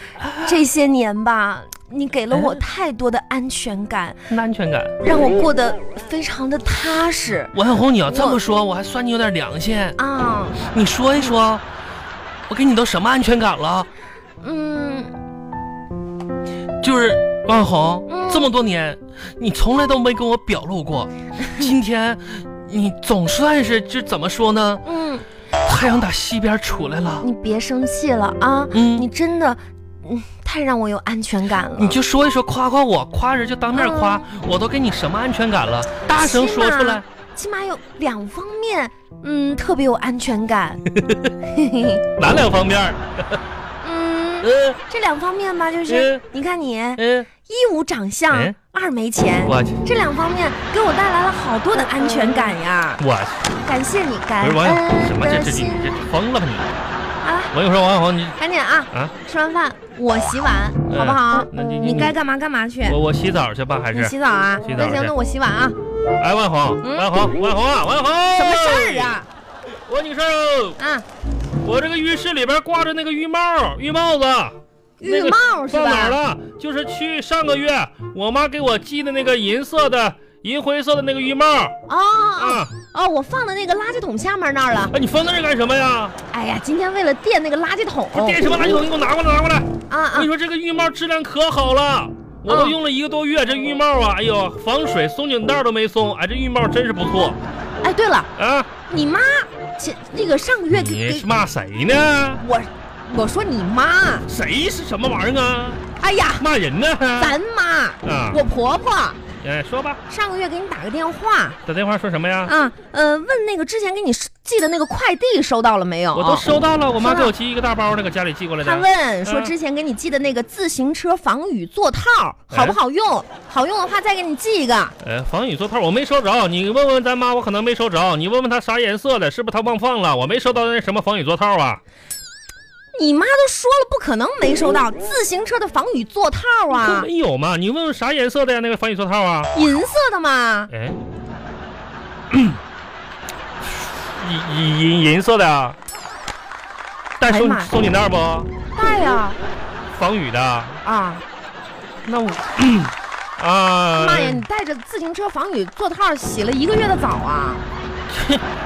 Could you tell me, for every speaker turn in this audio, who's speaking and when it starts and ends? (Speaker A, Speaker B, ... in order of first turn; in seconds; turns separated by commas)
Speaker A: 0.2-0.6, Speaker B: 0.4-4.3, Speaker A: 2.3-2.6, Speaker A: 4.3-5.0, Speaker B: 5.0-7.5, Speaker A: 7.5-10.0, Speaker B: 8.1-8.4, Speaker B: 10.0-10.6, Speaker A: 10.6-11.6, Speaker A: 12.5-13.9, Speaker B: 14.4-15.1, Speaker A: 16.8-24.8, Speaker B: 18.1-18.5, Speaker B: 24.8-25.2, Speaker A: 25.6-27.3, Speaker B: 27.2-32.0, Speaker A: 28.7-29.1, Speaker A: 31.8-37.0, Speaker B: 33.7-34.3, Speaker B: 36.1-40.8, Speaker A: 41.0-41.3, Speaker B: 41.5-42.0, Speaker A: 42.2-43.4, Speaker B: 43.8-53.0, Speaker A: 44.4-44.8, Speaker A: 45.9-46.2, Speaker A: 47.0-47.3, Speaker A: 48.3-48.5, Speaker A: 49.4-49.8, Speaker A: 53.0-53.5, Speaker B: 53.6-56.0, Speaker A: 54.4-56.7, Speaker B: 57.2-57.5, Speaker A: 57.5-58.4, Speaker B: 58.4-63.0, Speaker A: 60.9-62.1, Speaker A: 62.8-65.1, Speaker B: 63.9-65.8, Speaker A: 66.2-69.2, Speaker B: 66.8-67.1, Speaker B: 68.3-69.3, Speaker A: 69.9-70.8, Speaker B: 70.8-71.0, Speaker A: 71.6-81.7, Speaker B: 75.0-76.2, Speaker B: 81.9-84.9, Speaker A: 82.4-82.7, Speaker A: 84.9-86.1, Speaker B: 86.3-88.6, Speaker A: 88.1-97.4, Speaker B: 89.9-90.3, Speaker B: 92.5-92.7, Speaker B: 97.8-98.3, Speaker A: 98.3-98.7, Speaker B: 98.8-101.3, Speaker A: 100.7-102.4, Speaker B: 102.4-104.3, Speaker A: 104.3-105.8, Speaker B: 106.0-106.5, Speaker A: 106.4-107.4, Speaker B: 107.2-109.2, Speaker A: 108.0-108.4, Speaker A: 109.4-110.0, Speaker B: 110.1-111.6, Speaker A: 111.7-112.5, Speaker B: 112.4-117.3, Speaker A: 116.1-119.5, Speaker B: 118.6-124.9, Speaker A: 122.5-122.8, Speaker A: 125.0-131.8, Speaker B: 132.9-137.1, Speaker A: 136.7-139.5, Speaker B: 139.5-140.7, Speaker A: 140.7-141.0, Speaker A: 142.3-142.6, Speaker A: 143.6-145.8, Speaker A: 147.2-148.5, Speaker B: 147.2-147.7, Speaker B: 148.7-149.4, Speaker A: 149.9-150.8, Speaker B: 150.8-151.2, Speaker A: 152.0-154.4, Speaker B: 153.9-157.6, Speaker A: 158.1-158.4